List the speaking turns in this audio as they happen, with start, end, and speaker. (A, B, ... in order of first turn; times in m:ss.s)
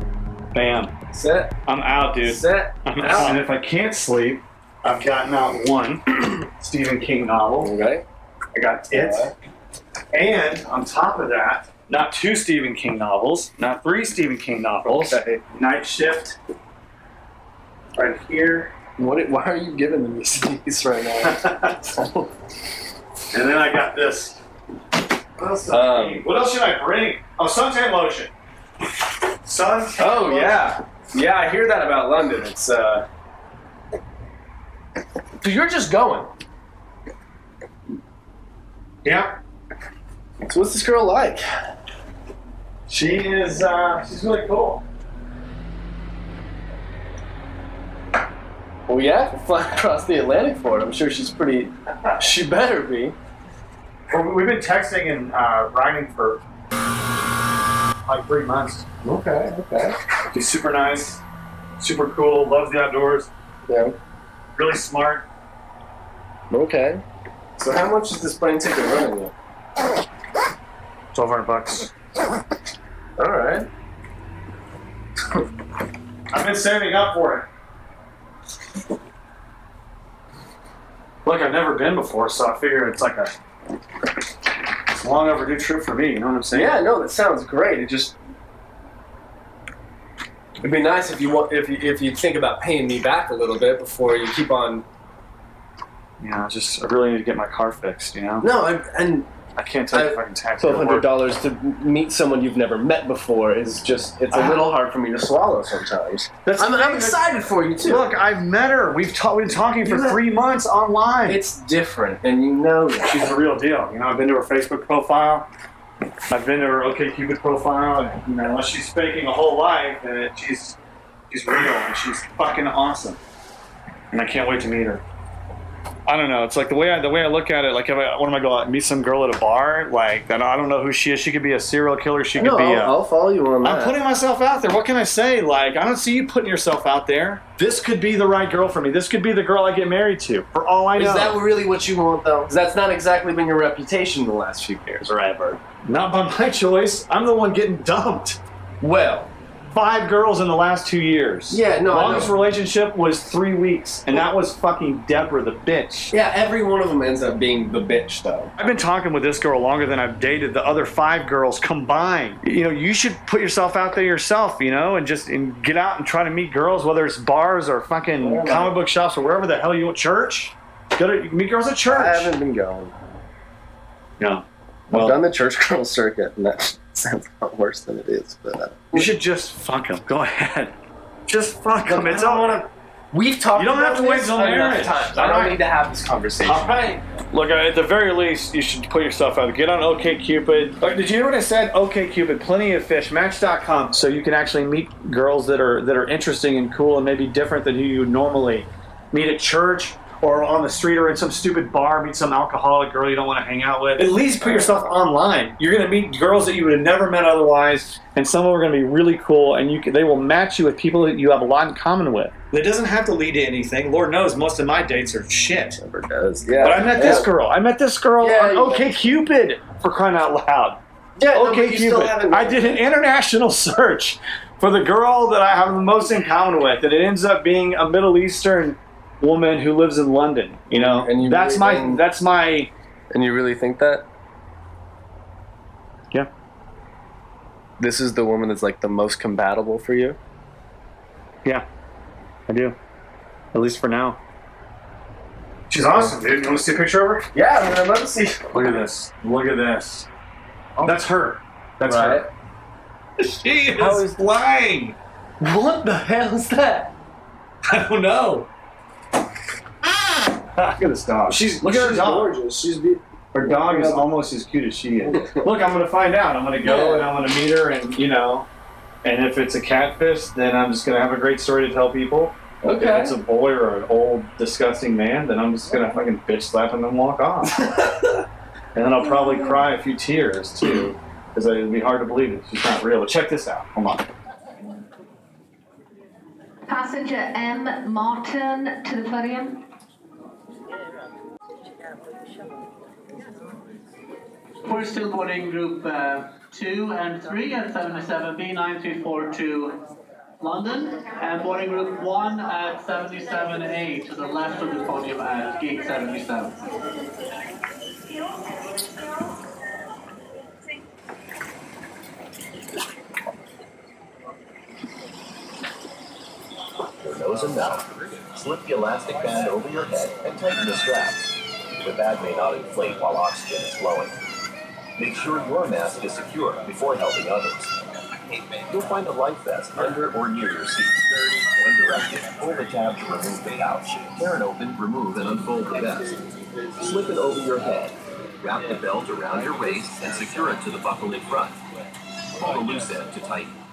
0:00.5-0:00.9 A
0:01.1-0:01.5 B
0:01.7-0:07.7 A
0:02.2-0:03.4 B
0:07.6-0:08.0 B
0:08.5-0:09.3 A
0:08.9-0:09.3 B
0:10.1-0:16.4 A
0:15.0-0:15.4 B
0:17.9-0:18.7 A
0:19.0-0:21.4 B
0:21.2-0:21.9 A
0:23.3-0:24.4 A
0:25.4-0:28.3 A
0:25.7-0:26.3 B
0:29.4-0:30.7 A
0:30.0-0:33.1 B
0:35.4-0:36.3 B
0:39.0-0:39.4 A
0:40.4-0:41.4 B
0:42.9-0:44.8 A
0:48.9-0:53.2 B
0:54.1-0:56.4 A
0:58.0-0:58.8 A
0:59.0-1:00.0 B
1:00.3-1:01.2 A
1:01.8-1:03.3 A
1:03.7-1:04.0 B
1:04.6-1:05.2 A
1:06.5-1:07.0 B
1:07.6-1:09.3 B
1:11.1-1:11.9 A
1:13.2-1:13.7 B
1:16.3-1:17.5 A
1:21.2-1:23.3 A
1:25.0-1:26.8 A
1:26.5-1:28.1 B
1:30.6-1:34.8 B
1:36.2-1:38.5 A
1:38.4-1:39.3 B
1:39.6-1:41.1 A
1:39.9-1:48.1 B
1:44.3-1:44.6 A
1:46.4-1:47.2 A
1:47.8-1:51.4 A
1:49.8-1:50.2 B
1:51.3-1:53.3 B
1:53.0-1:55.5 A
1:56.3-2:00.8 A
2:01.3-2:03.2 A
2:04.1-2:05.0 A
2:06.1-2:12.9 A
2:12.4-2:13.9 B
2:13.6-2:21.4 A
2:21.0-2:25.6 B
2:25.8-2:28.4 A
2:28.8-2:29.3 B
2:29.7-2:36.1 A
2:31.5-2:32.3 B
2:36.1-2:38.5 B
2:38.6-2:52.3 A
2:48.2-2:48.8 B
2:51.9-2:53.0 B
2:54.2-2:55.2 A
2:54.9-2:59.1 B
2:58.9-3:00.7 A
3:01.3-3:02.7 A
3:01.8-3:07.0 B
3:03.5-3:05.6 A
3:06.4-3:35.8 A
3:24.1-3:24.9 B
3:35.8-3:37.3 B
3:36.6-3:40.8 A
3:38.2-3:39.0 B
3:41.2-3:42.8 B
3:41.3-3:52.7 A
3:50.7-3:52.0 B
3:53.1-3:54.0 B
3:57.8-4:00.2 B
4:02.5-4:02.8 A
4:03.5-4:04.2 A
4:05.7-4:07.3 A
4:07.3-4:08.5 B
4:08.5-4:10.1 A
4:10.8-4:12.2 A
4:11.9-4:12.3 B
4:13.3-4:15.0 A
4:13.7-4:14.0 B
4:15.4-4:16.9 B
4:17.7-4:18.5 A
4:20.5-4:22.4 A
4:21.3-4:24.1 B
4:23.3-4:28.5 A
4:26.6-4:27.1 B
4:29.0-4:37.6 A
4:32.6-4:33.1 B
4:38.7-4:44.0 A
4:46.7-4:49.6 C
4:54.6-4:59.8 D
5:00.4-5:06.6 D
5:17.0-5:24.2 E
5:25.0-5:36.1 E
5:36.8-5:41.6 E
5:42.3-5:43.5 E